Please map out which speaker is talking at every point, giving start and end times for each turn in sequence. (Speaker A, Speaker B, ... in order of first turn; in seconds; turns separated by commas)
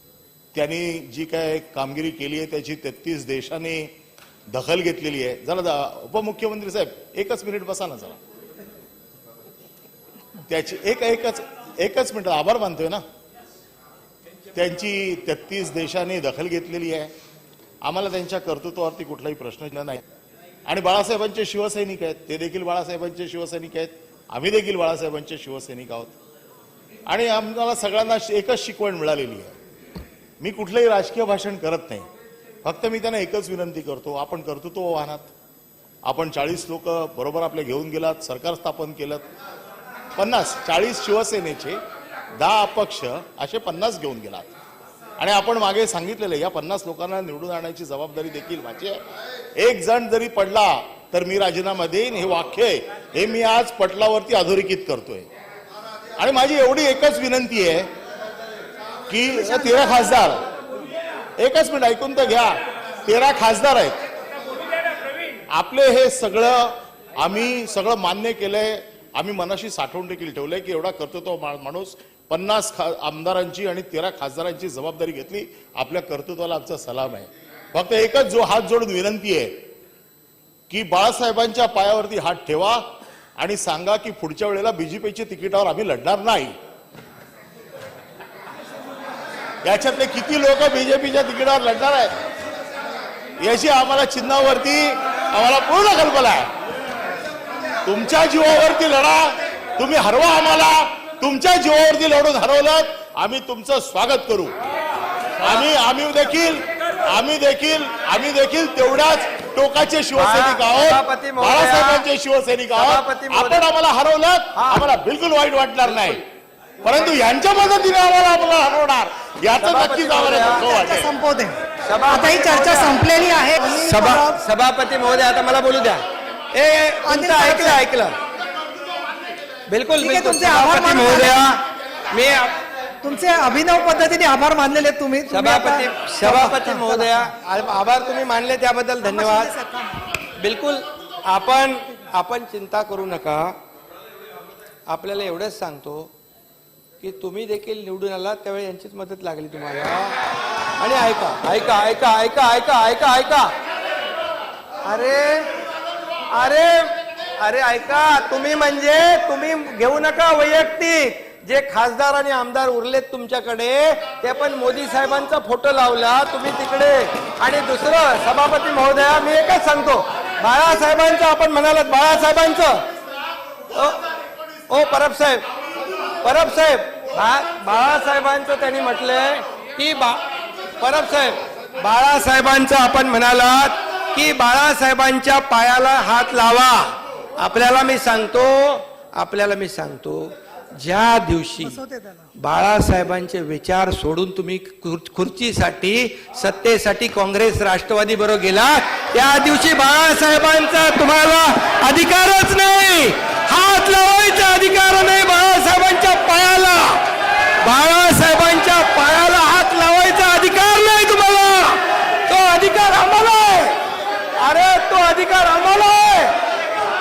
Speaker A: 0.6-3.9, Speaker A: 4.5-8.2, Speaker A: 10.5-13.0, Speaker A: 14.5-17.1, Speaker A: 17.8-20.0, Speaker A: 20.7-26.2, Speaker A: 27.1-29.6, Speaker A: 30.4-32.1, Speaker A: 32.6-35.3, Speaker A: 36.0-39.3, Speaker A: 40.2-41.8, Speaker A: 42.4-44.5, Speaker A: 45.2-49.0, Speaker A: 49.6-55.3, Speaker A: 56.2-57.9, Speaker A: 59.1-60.4, Speaker A: 61.4-64.0, Speaker A: 65.5-79.5, Speaker A: 80.7-82.8, Speaker A: 83.4-86.5, Speaker A: 89.6-92.1, Speaker A: 93.4-96.5, Speaker A: 97.8-104.5, Speaker A: 105.4-116.2, Speaker B: 110.2-112.1, Speaker B: 112.7-113.7, Speaker B: 114.6-114.9, Speaker A: 116.8-121.1, Speaker B: 119.6-120.7, Speaker C: 120.6-124.4, Speaker B: 121.8-123.0, Speaker B: 123.6-128.1, Speaker C: 127.1-127.8, Speaker B: 129.7-132.6, Speaker C: 130.0-131.4, Speaker C: 133.0-137.3, Speaker B: 135.3-139.5, Speaker C: 139.0-140.0, Speaker B: 140.2-143.5, Speaker B: 144.9-146.1, Speaker B: 147.0-150.2, Speaker B: 150.8-153.5, Speaker B: 154.8-155.5, Speaker B: 156.3-172.8, Speaker B: 173.7-174.0, Speaker B: 174.7-175.5, Speaker B: 176.2-180.2, Speaker B: 180.8-191.8, Speaker C: 191.6-192.3, Speaker B: 192.3-207.0, Speaker B: 207.6-213.8, Speaker B: 214.4-216.3